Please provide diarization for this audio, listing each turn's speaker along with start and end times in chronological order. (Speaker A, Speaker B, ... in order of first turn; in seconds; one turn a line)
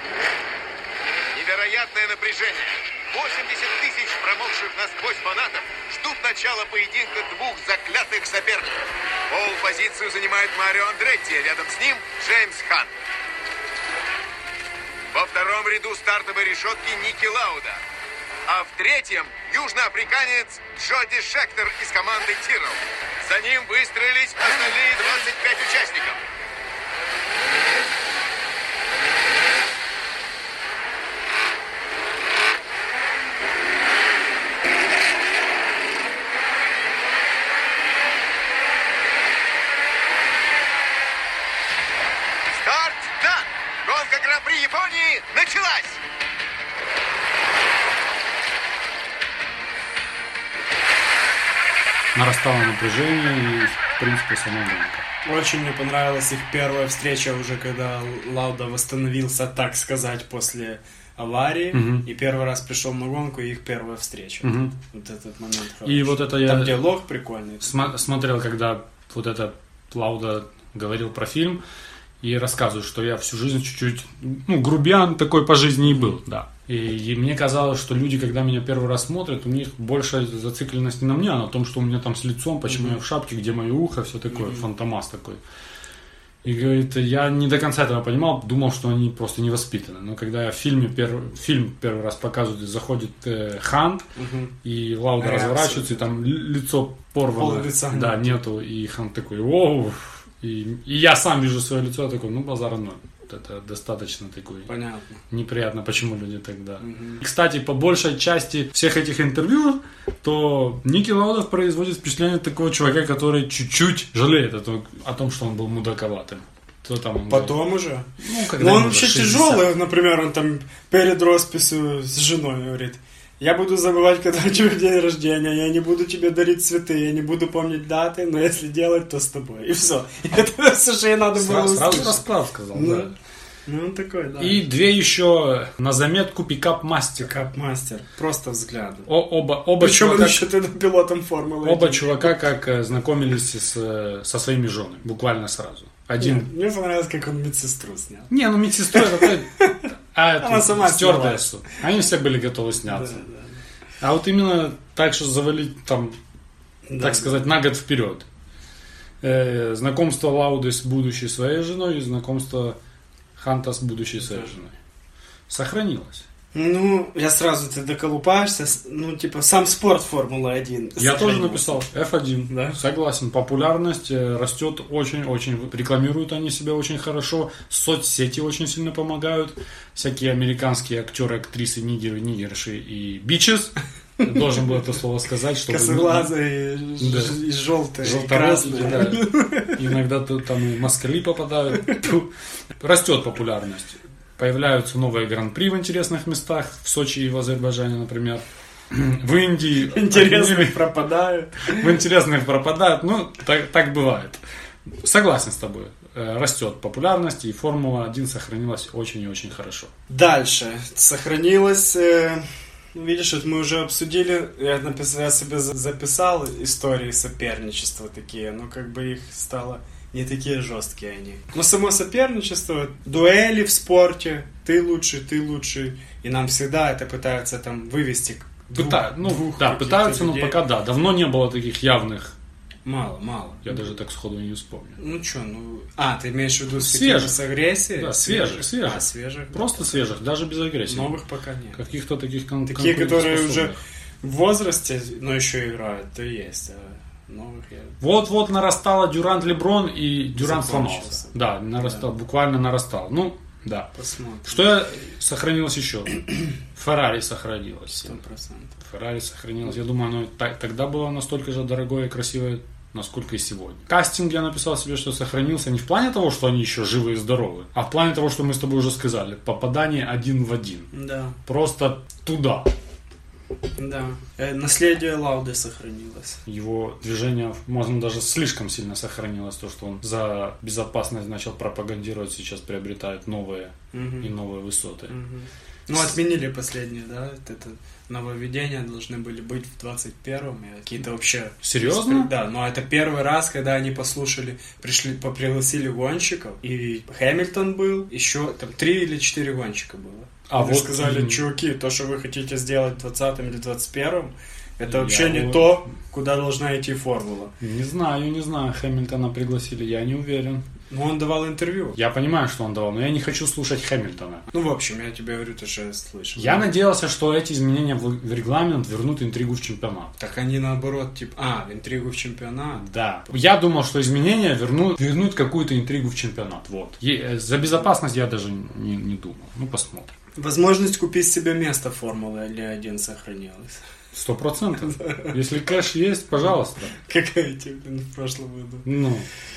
Speaker A: 1.3-8.7
Speaker A: 9.3-12.9
Speaker A: 15.1-17.8
Speaker A: 18.5-26.2
Speaker A: 42.5-46.0
Speaker B: 52.1-55.0
Speaker C: 55.2-67.9
Speaker B: 61.7-62.0
Speaker B: 64.4-64.7
Speaker B: 65.8-66.9
Speaker B: 67.6-71.6
Speaker B: 72.2-85.4
Speaker C: 82.7-83.0
Speaker C: 84.3-84.7
Speaker B: 86.4-94.1
Speaker C: 94.2-94.5
Speaker B: 94.6-104.7
Speaker C: 95.2-96.2
Speaker C: 97.3-98.4
Speaker C: 104.7-105.2
Speaker B: 105.3-117.6
Speaker C: 106.8-107.2
Speaker C: 117.3-133.1
Speaker B: 118.2-119.7
Speaker B: 131.3-133.1
Speaker C: 133.7-134.6
Speaker B: 134.4-137.3
Speaker C: 137.2-139.1
Speaker B: 139.1-140.5
Speaker C: 139.8-142.4
Speaker B: 141.6-146.5
Speaker C: 146.2-148.3
Speaker B: 148.3-153.2
Speaker C: 148.9-149.9
Speaker C: 150.4-151.5
Speaker C: 152.9-153.6
Speaker B: 154.0-156.2
Speaker C: 156.9-157.5
Speaker B: 157.0-158.2
Speaker B: 159.2-162.8
Speaker B: 163.4-164.7
Speaker B: 165.5-166.2
Speaker C: 166.5-171.9
Speaker B: 171.0-186.3
Speaker C: 172.5-172.8
Speaker C: 185.7-189.8
Speaker B: 187.0-187.4
Speaker B: 188.0-200.8
Speaker C: 199.9-201.9
Speaker B: 201.7-209.9
Speaker C: 210.1-230.6
Speaker B: 228.7-232.3
Speaker C: 232.8-233.8
Speaker B: 233.6-235.0
Speaker C: 235.0-240.1
Speaker B: 236.8-241.2
Speaker C: 240.9-241.8
Speaker B: 241.7-243.8
Speaker C: 242.7-248.0
Speaker B: 248.0-253.9
Speaker C: 250.4-252.1
Speaker C: 253.9-254.7
Speaker B: 254.5-258.2
Speaker C: 257.9-258.7
Speaker B: 258.8-270.9
Speaker C: 270.9-271.4
Speaker B: 271.4-272.7
Speaker C: 273.8-276.4
Speaker B: 276.4-285.1
Speaker C: 283.9-284.3
Speaker C: 285.1-307.5
Speaker B: 291.6-292.3
Speaker B: 300.5-301.4
Speaker B: 304.9-305.8
Speaker B: 307.6-310.6
Speaker C: 310.9-312.0
Speaker B: 311.9-314.4
Speaker C: 314.5-316.7
Speaker B: 316.4-320.2
Speaker C: 320.2-322.9
Speaker B: 322.8-330.1
Speaker C: 330.4-333.8
Speaker B: 334.1-336.9
Speaker C: 334.9-335.3
Speaker C: 336.9-338.9
Speaker B: 338.9-339.3